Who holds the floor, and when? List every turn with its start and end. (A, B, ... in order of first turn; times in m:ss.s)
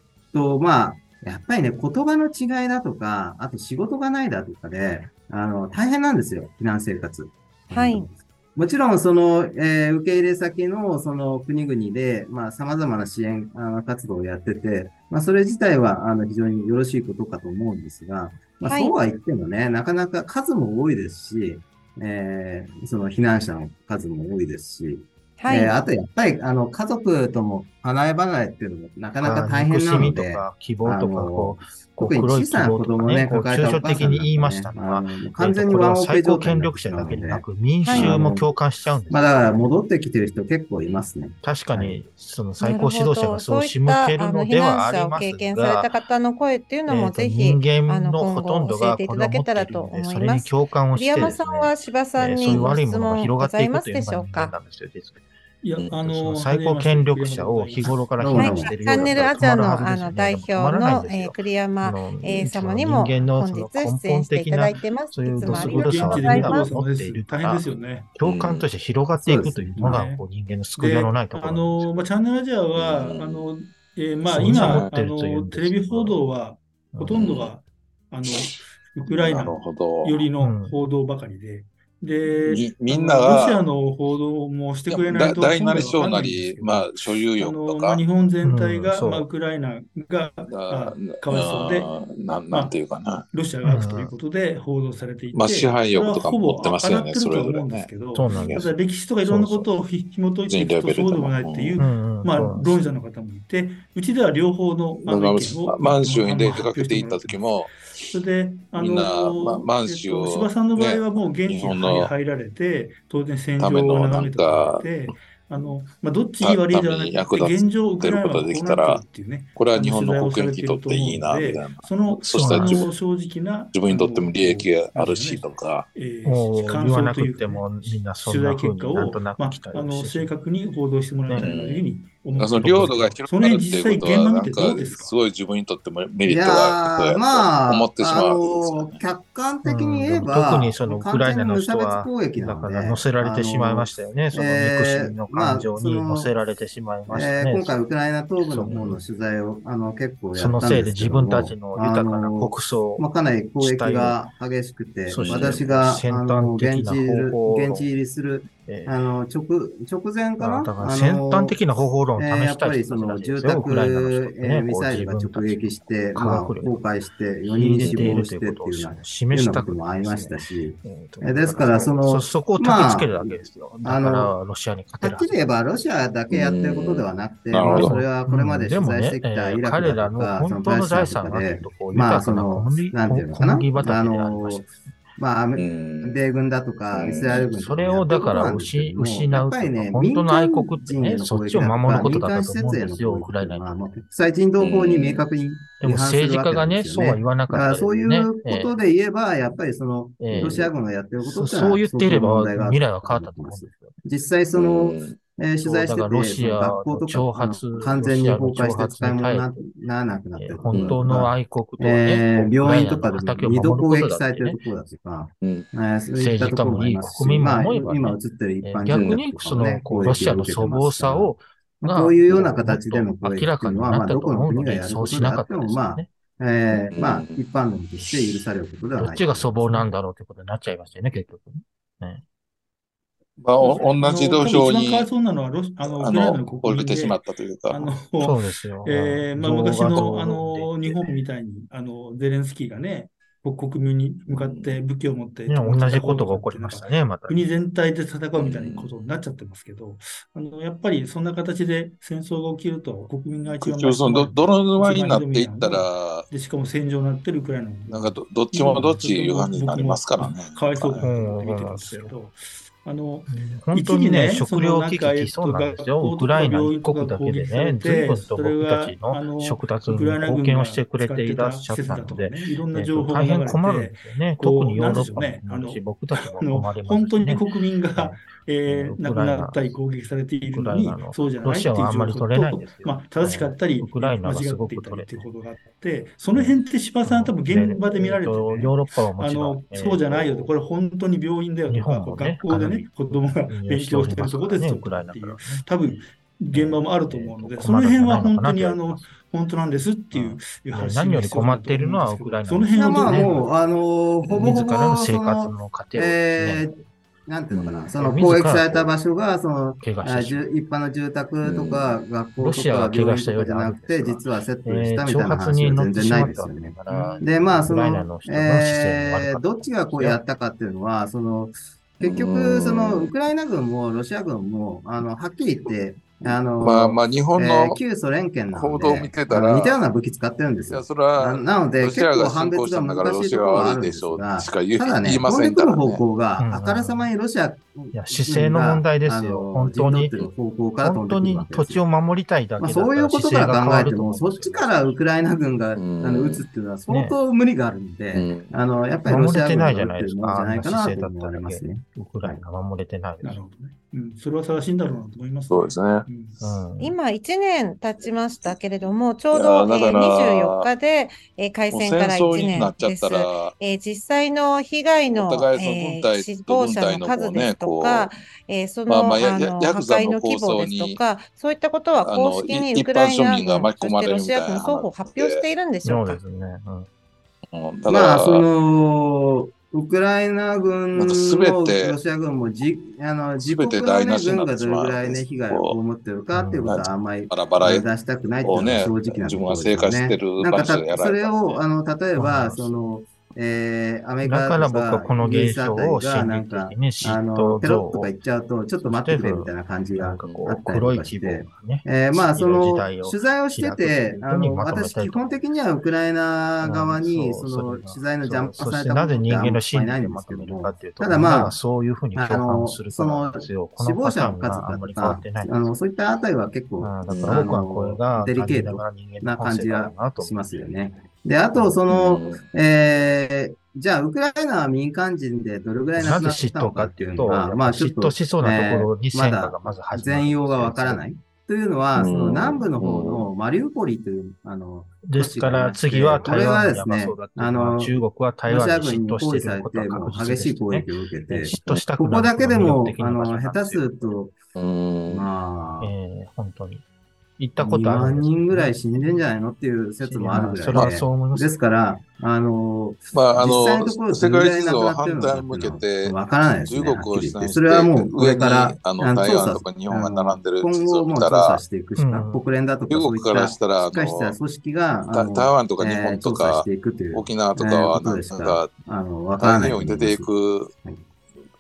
0:00.3-0:38.5 A
0:07.7-0:08.1 B
0:18.7-0:18.9 B
0:25.4-0:25.7 B
0:29.2-0:39.6 C
0:37.8-0:38.1 B
0:39.1-0:42.0 A
0:41.4-0:45.9 C
0:42.6-0:54.5 B
0:46.9-0:55.2 C
0:52.5-0:52.8 D
0:55.6-0:58.0 E
0:56.0-1:11.9 C
0:58.2-0:58.7 A
0:58.3-1:06.7 B
1:05.4-1:08.1 E
1:08.2-1:08.6 D
1:09.2-1:10.0 A
1:09.8-1:10.2 E
1:10.8-1:31.9 E
1:12.8-1:13.4 D
1:14.3-1:16.2 C
1:14.4-1:14.9 D
1:16.9-1:17.3 C
1:17.1-1:17.5 D
1:19.1-1:20.2 D
1:20.4-1:20.7 C
1:22.4-1:23.6 D
1:24.9-1:28.0 D
1:28.4-1:29.3 C
1:30.5-1:33.2 D
1:33.3-2:15.1 E
1:33.6-1:34.1 C
1:35.3-1:38.7 D
1:38.1-1:38.6 C
1:39.2-1:39.7 C
1:40.5-1:41.8 D
1:41.8-1:42.7 C
1:45.0-1:48.2 D
1:48.8-1:52.1 D
1:53.6-1:54.8 D
1:56.4-1:59.0 D
1:59.6-2:02.9 D
2:02.3-2:02.8 C
2:03.7-2:05.9 D
2:06.2-2:10.3 C
2:11.4-2:19.0 D
2:12.6-2:13.2 C
2:16.2-2:26.3 A
2:19.6-2:27.7 C
2:27.1-2:41.6 A
2:28.4-2:29.0 C
2:30.3-2:33.0 C
2:33.6-2:34.2 C
2:35.1-2:37.9 C
2:35.2-2:35.6 D
2:38.6-2:38.9 C
2:40.4-2:46.8 C
2:42.2-2:54.3 A
2:47.4-2:55.4 C
2:47.8-2:48.2 D
2:55.0-3:49.5 A
2:56.3-2:57.9 D
2:57.6-3:04.7 C
3:05.6-3:06.2 D
3:06.9-3:07.5 D
3:07.5-3:13.8 C
3:14.6-3:15.2 D
3:15.8-3:18.8 C
3:20.2-3:24.0 C
3:20.3-3:20.7 D
3:24.6-3:25.2 D
3:25.6-3:29.6 C
3:30.4-3:34.6 C
3:30.7-3:31.0 D
3:35.4-3:35.7 D
3:36.2-3:46.1 C
3:38.9-3:39.2 D
3:46.7-3:47.4 D
3:49.0-3:52.2 C
3:53.4-3:55.1 D
3:53.6-4:35.8 E
3:55.8-3:58.0 D
3:58.2-4:01.0 C
4:04.3-4:04.8 D
4:05.5-4:07.4 C
4:08.4-4:08.9 D
4:13.6-4:16.3 D
4:17.9-4:21.0 D
4:21.0-4:22.1 C
4:23.3-4:37.4 C
4:36.4-5:03.5 E
4:38.0-4:39.8 C
4:40.5-4:45.2 C
4:46.3-4:50.5 C
4:51.7-4:55.6 C
4:56.5-4:59.1 C
5:00.1-5:03.4 C
5:02.8-5:41.8 A
5:04.3-5:06.7 C
5:07.5-5:07.9 D
5:08.0-5:08.9 C
5:09.8-5:10.4 C
5:11.4-5:11.9 D
5:12.4-5:20.2 C
5:22.0-5:23.1 D
5:26.6-5:27.8 D
5:28.5-5:29.8 D
5:30.7-5:36.0 D
5:36.4-5:37.1 C
5:37.9-5:40.3 C
5:40.8-5:44.9 C
5:42.6-5:52.4 A
5:45.8-5:46.4 D
5:46.9-5:47.2 C
5:48.2-5:48.5 D
5:49.0-5:53.4 C
5:53.2-5:56.5 E
5:55.5-5:56.1 D
5:56.4-5:57.0 C
5:56.8-6:16.2 B
5:59.3-6:00.7 D
6:01.7-6:03.5 D
6:05.1-6:08.2 D
6:08.9-6:11.0 D
6:12.0-6:15.4 D
6:15.8-6:16.9 C
6:17.5-6:18.4 D
6:17.9-6:51.6 A
6:21.0-6:22.0 D
6:23.4-6:25.8 D
6:26.3-6:26.8 C
6:26.6-6:27.8 D
6:28.4-6:31.6 D
6:32.2-6:32.7 C
6:34.2-6:38.1 C
6:38.8-6:45.4 C
6:46.6-6:55.7 C
6:52.2-7:24.4 A
6:56.8-7:00.6 C
6:57.1-6:57.5 D
7:01.9-7:02.4 D
7:06.0-7:11.0 C
7:12.0-7:13.3 D
7:15.0-7:24.1 C
7:24.6-7:25.3 D
7:25.1-7:25.9 A
7:25.8-7:26.8 C
7:27.4-7:29.3 C
7:27.6-7:50.3 A
7:30.0-7:31.5 C
7:33.1-7:36.2 D
7:36.7-7:41.6 D
7:42.0-7:42.4 C
7:42.9-7:44.4 D
7:45.1-7:48.7 D
7:49.4-7:50.7 D